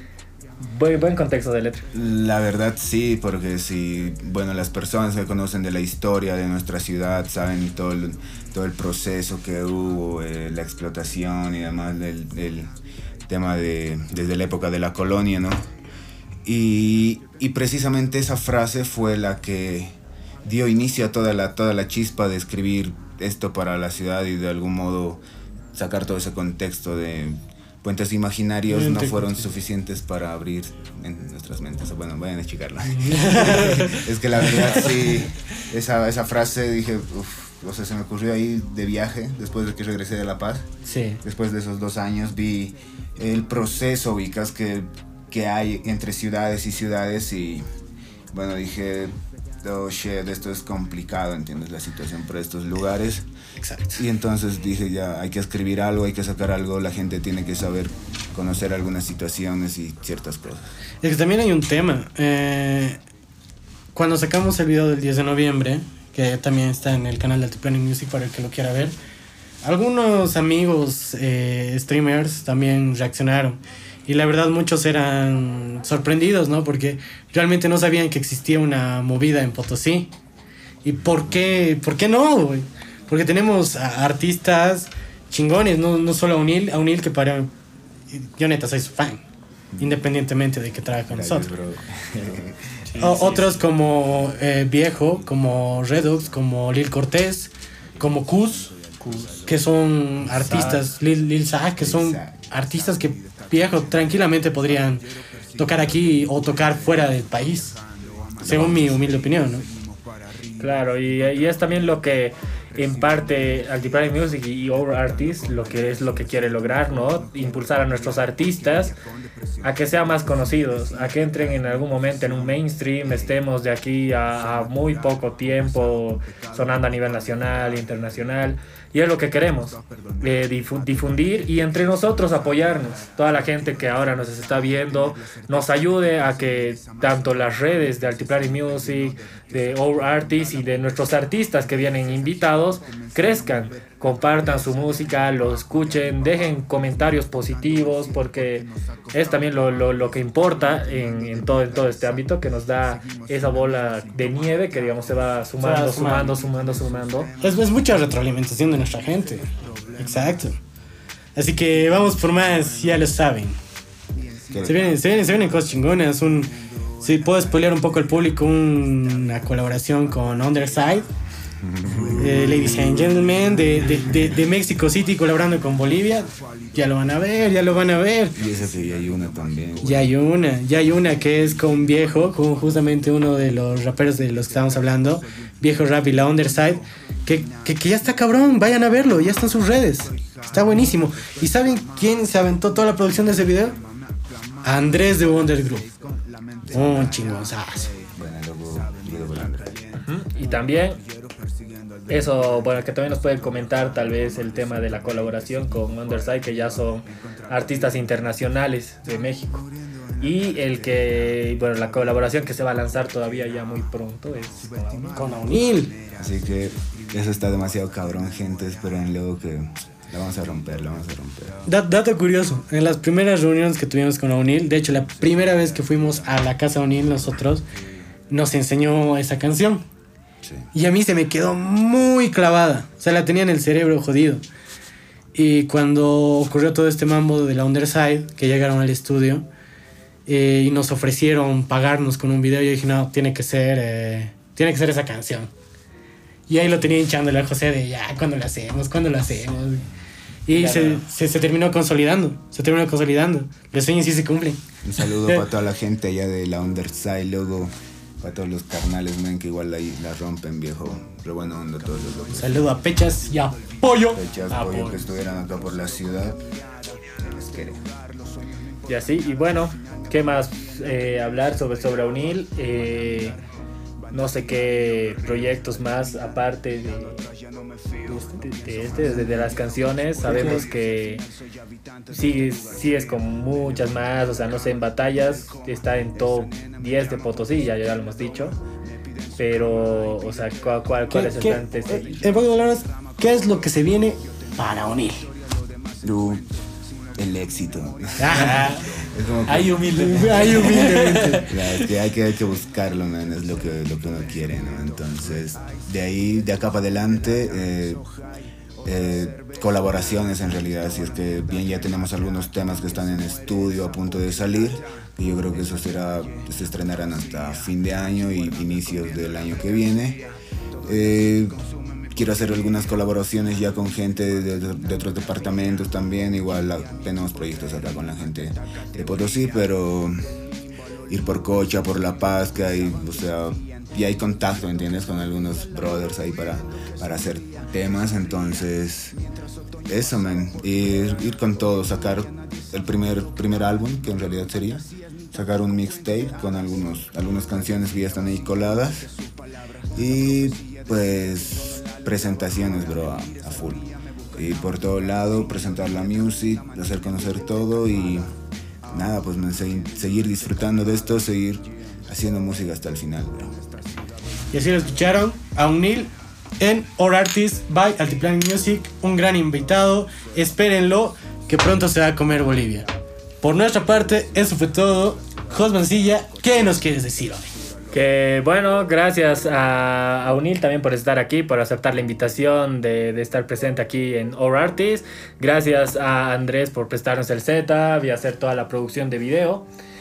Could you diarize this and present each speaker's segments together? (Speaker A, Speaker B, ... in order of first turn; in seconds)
Speaker A: 0.6-1.9, 92.9-93.6, 99.0-99.3, 100.3-100.8, 110.6-119.0, 119.6-157.3, 200.0-201.0, 202.1-209.7, 210.2-215.2, 250.5-251.0, 264.5-265.0, 268.9-273.4, 274.1-277.3, 278.4-281.2, 282.1-288.6, 289.4-292.2, 298.4-298.8, 299.4-301.9, 377.9-389.6
Speaker B: 1.9-12.7, 13.3-15.7, 16.4-25.2, 25.7-40.7, 41.2-47.6, 48.3-53.3, 53.9-60.7, 89.7-90.0, 91.1-92.8, 101.8-102.3, 108.4-109.0, 164.5-164.9, 171.6-173.0, 178.3-180.1, 196.6-197.1, 198.1-199.8, 216.2-221.6, 230.4-230.7, 254.8-262.8, 264.1-266.4, 267.1-267.9, 296.0-296.5, 297.2-299.8, 301.5-308.0, 308.8-320.3, 320.8-321.6, 322.1-330.2, 331.1-339.2, 339.9-349.1, 349.9-358.2, 358.9-363.6
Speaker C: 28.7-29.3, 32.9-34.0, 40.8-41.2, 53.6-54.0, 61.0-63.0, 63.9-68.9, 69.6-80.1, 80.8-87.5, 88.1-89.2, 89.8-91.5, 93.0-98.7, 99.5-105.0, 105.6-107.8, 108.4-109.7, 155.6-156.3, 157.4-160.6, 161.3-163.6, 164.6-171.1, 172.2-178.4, 179.8-193.8, 194.6-195.9, 196.7-197.9, 215.1-215.9, 221.7-227.6, 228.3-229.8, 230.7-234.4, 235.3-239.4, 240.3-245.5, 246.5-249.9, 250.5-254.6, 262.3-264.2, 278.1-278.4, 280.2-280.6, 291.1-295.3, 298.2-298.8, 299.9-301.5, 364.5-372.9, 373.4-377.5